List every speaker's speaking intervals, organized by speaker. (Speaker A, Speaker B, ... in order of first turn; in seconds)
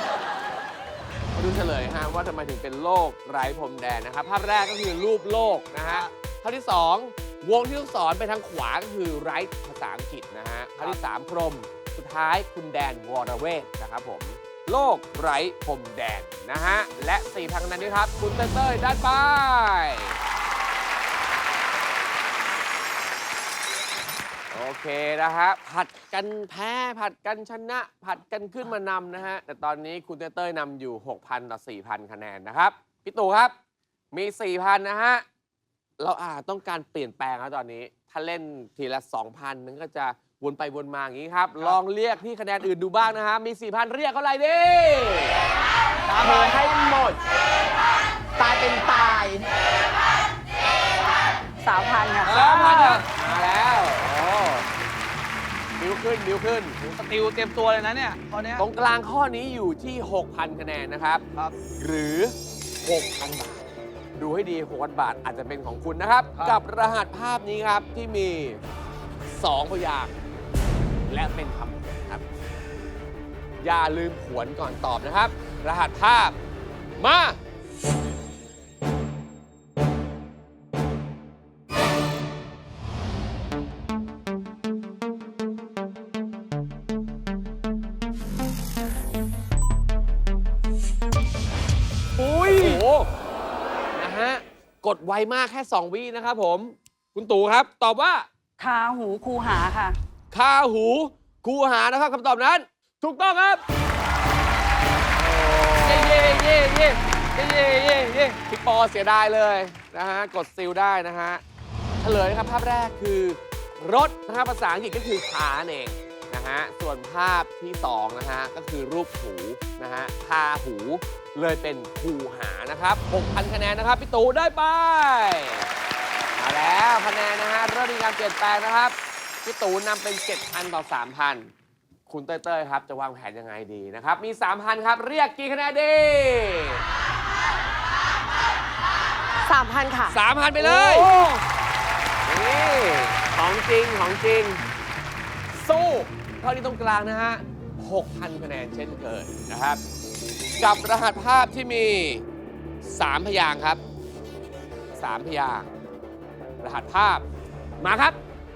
Speaker A: 1.4-20.2, 24.5-33.5, 34.1-35.2, 36.0-45.4, 52.5-54.7, 55.8-56.8, 58.6-61.2, 61.8-68.6, 69.3-70.2, 71.1-72.2, 73.6-76.4, 77.0-77.4, 92.2-93.1, 94.0-98.3, 100.3-103.6, 105.4-107.0, 108.5-111.4, 112.0-125.7, 126.4-131.5, 132.1-136.8, 140.1-141.1, 142.3-144.6, 145.5-149.8, 150.6-152.2, 152.8-153.8, 155.0-155.7, 156.6-157.2, 157.8-158.2
Speaker B: 46.1-46.6, 52.3-53.0, 56.8-58.6, 92.2-92.8, 105.8-106.5, 107.3-108.4
Speaker C: 46.2-47.2, 48.4-49.5
Speaker D: 51.6-53.0, 98.6-100.0
Speaker E: 139.4-141.4